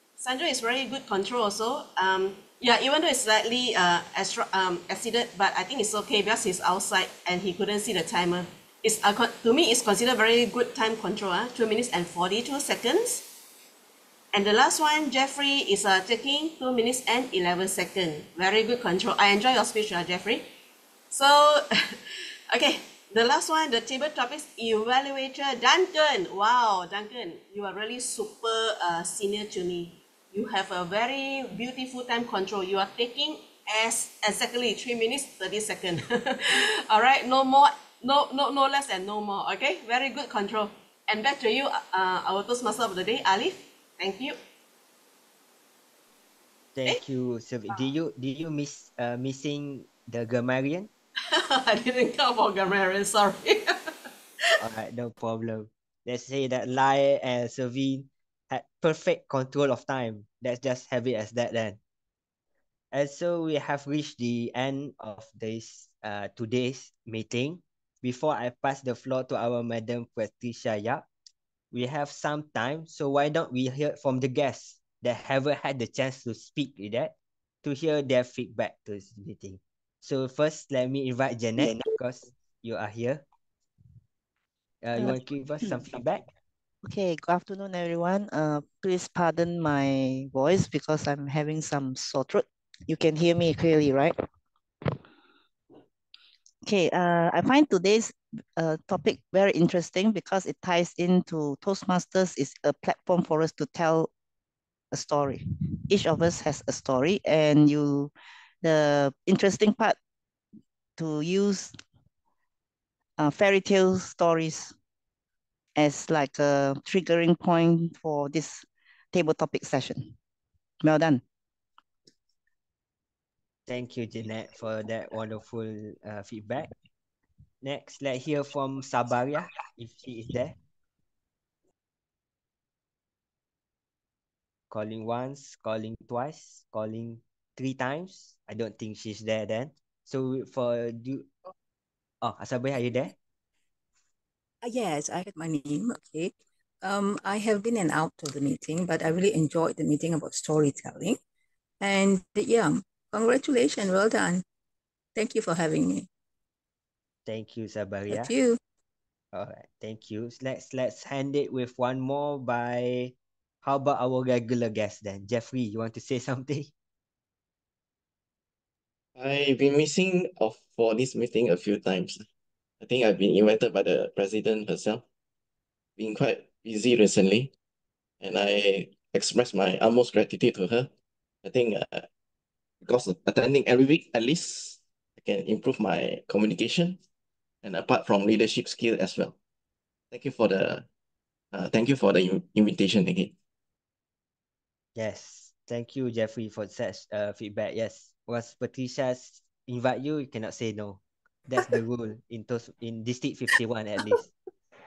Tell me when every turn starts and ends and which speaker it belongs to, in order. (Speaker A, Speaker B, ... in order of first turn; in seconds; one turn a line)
Speaker A: 0.2-13.2
Speaker A: 14.3-20.5
Speaker A: 21.1-22.0
Speaker A: 22.5-44.4
Speaker B: 46.8-50.9
Speaker A: 51.3-53.9
Speaker B: 54.6-61.8
Speaker B: 62.9-71.0
Speaker B: 71.7-83.2
Speaker B: 84.8-86.2
Speaker C: 86.8-94.2
Speaker C: 96.7-104.1
Speaker C: 104.9-108.1
Speaker C: 108.6-110.0
Speaker C: 111.0-111.8
Speaker C: 113.2-114.7
Speaker C: 115.8-120.1
Speaker C: 120.8-121.2
Speaker B: 123.7-126.7
Speaker B: 127.6-130.6
Speaker B: 134.7-141.3
Speaker B: 142.2-143.2
Speaker D: 144.6-151.2
Speaker D: 151.8-154.4
Speaker D: 155.2-156.1
Speaker B: 157.3-158.3
Speaker D: 158.1-158.6
Speaker B: 159.3-166.7
Speaker E: 169.2-172.2
Speaker E: 172.8-175.0
Speaker E: 176.0-177.5
Speaker E: 178.2-180.9
Speaker E: 181.4-182.1
Speaker E: 182.8-187.0
Speaker E: 187.6-189.3
Speaker E: 190.1-190.8
Speaker E: 191.5-193.3
Speaker B: 195.0-204.3